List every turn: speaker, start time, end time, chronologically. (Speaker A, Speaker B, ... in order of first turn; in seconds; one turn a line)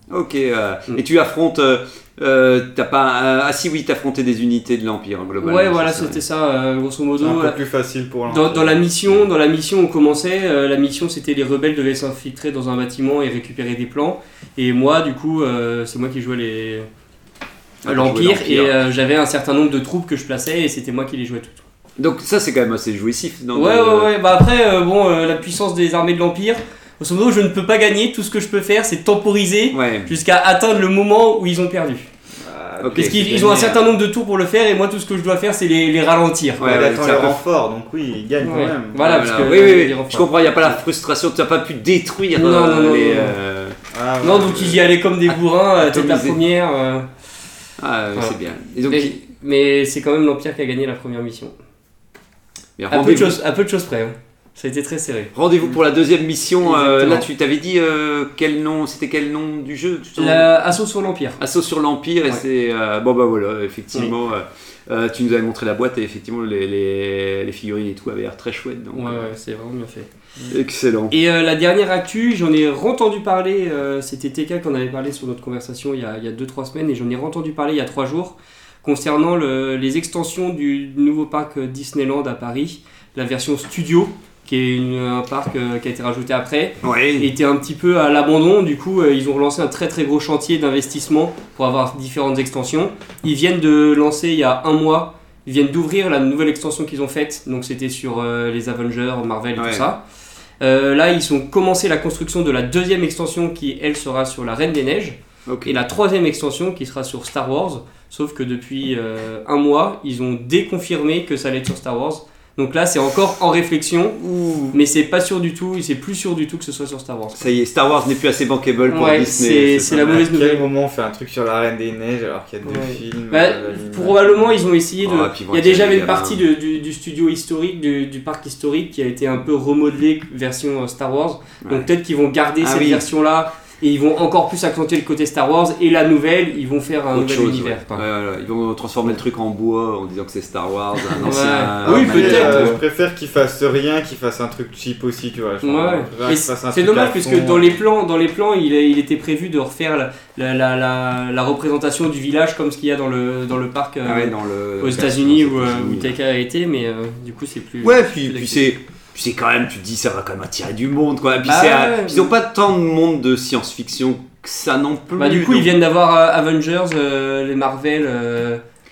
Speaker A: 0.1-6.2
Speaker B: 5.4-7.6
Speaker C: 7.2-8.9
Speaker B: 8.3-16.9
Speaker A: 17.8-18.7
Speaker B: 17.9-21.6
Speaker A: 22.0-24.1
Speaker B: 23.5-32.1
Speaker A: 29.7-30.1
Speaker C: 32.4-33.8
Speaker A: 32.8-33.8
Speaker B: 32.9-37.2
Speaker A: 36.6-37.4
Speaker C: 36.7-39.1
Speaker B: 38.4-40.8
Speaker A: 39.0-43.8
Speaker B: 42.3-43.4
Speaker C: 43.9-44.8
Speaker B: 44.2-47.1
Speaker A: 45.3-46.4
Speaker A: 47.8-49.2
Speaker B: 48.1-51.5
Speaker A: 52.8-53.4
Speaker B: 52.9-55.3
Speaker A: 55.4-60.5
Speaker B: 56.6-57.3
Speaker B: 60.2-61.4
Speaker A: 61.4-69.3
Speaker B: 68.9-70.1
Speaker A: 70.5-71.1
Speaker B: 71.1-100.0
Speaker A: 86.8-87.3
Speaker A: 99.6-99.9
Speaker B: 100.6-117.4
Speaker A: 105.5-105.8
Speaker A: 114.2-114.8
Speaker A: 117.4-120.2
Speaker B: 118.9-120.7
Speaker C: 119.9-124.5
Speaker B: 122.6-138.1
Speaker A: 125.0-126.4
Speaker A: 132.6-133.0
Speaker A: 137.1-142.8
Speaker B: 141.2-142.8
Speaker C: 141.8-147.7
Speaker B: 145.6-158.7
Speaker A: 154.1-156.1
Speaker A: 157.8-165.7
Speaker B: 161.4-162.3
Speaker B: 165.2-168.6